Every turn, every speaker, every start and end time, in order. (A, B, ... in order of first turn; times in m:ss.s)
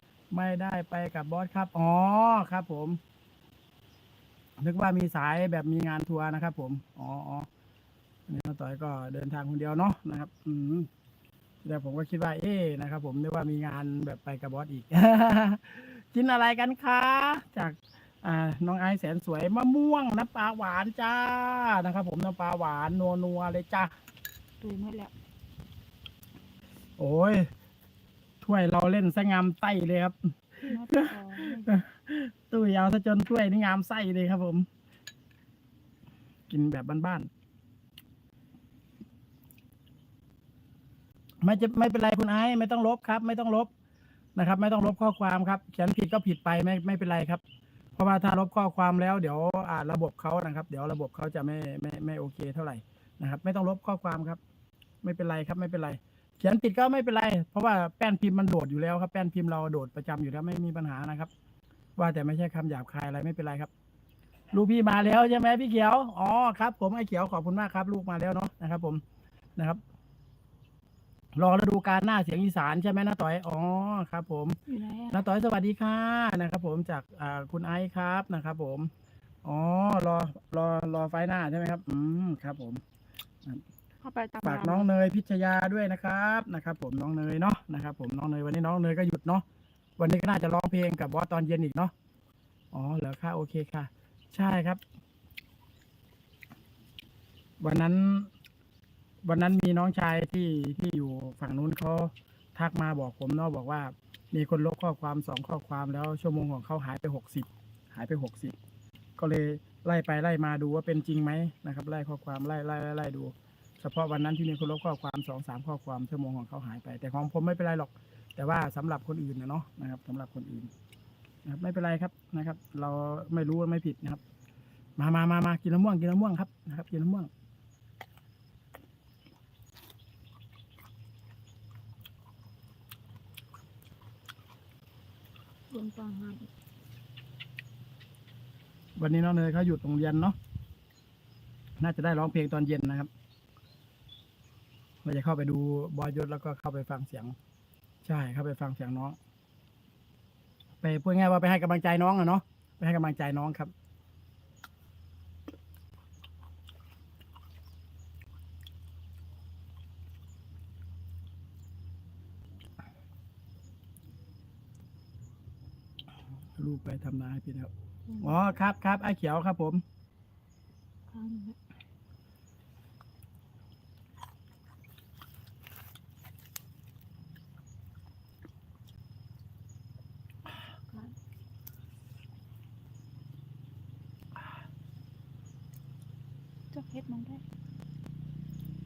0:00.3-0:03.0 A
0:04.6-0:07.5 A
0:08.3-0:10.9 A
0:11.6-0:23.9 A
0:24.6-0:25.1 B
0:27.0-0:27.5 A
0:28.4-0:34.7 A
0:30.6-0:31.8 B
0:36.5-0:37.3 A
0:41.4-0:43.7 A
0:44.4-0:47.4 A
0:48.0-0:54.4 A
0:55.0-1:01.3 A
1:02.0-1:03.7 A
1:04.5-1:09.0 A
1:11.4-1:14.6 A
1:14.7-1:15.2 B
1:15.1-1:18.9 A
1:19.4-1:22.8 A
1:24.0-1:24.9 B
1:24.4-1:29.4 A
1:30.0-1:31.9 A
1:32.7-1:34.8 A
1:37.6-1:38.3 A
1:39.2-1:48.6 A
1:49.2-2:00.7 A
2:01.4-2:04.2 A
2:05.0-2:07.3 A
2:15.7-2:16.5 B
2:19.0-2:20.4 A
2:21.8-2:23.1 A
2:25.0-2:27.4 A
2:28.0-2:29.2 A
2:30.8-2:33.7 A
2:46.6-2:49.8 A
2:48.1-2:48.3 B
2:51.1-2:51.6 B
3:00.9-3:01.1 B
3:06.7-3:07.4 B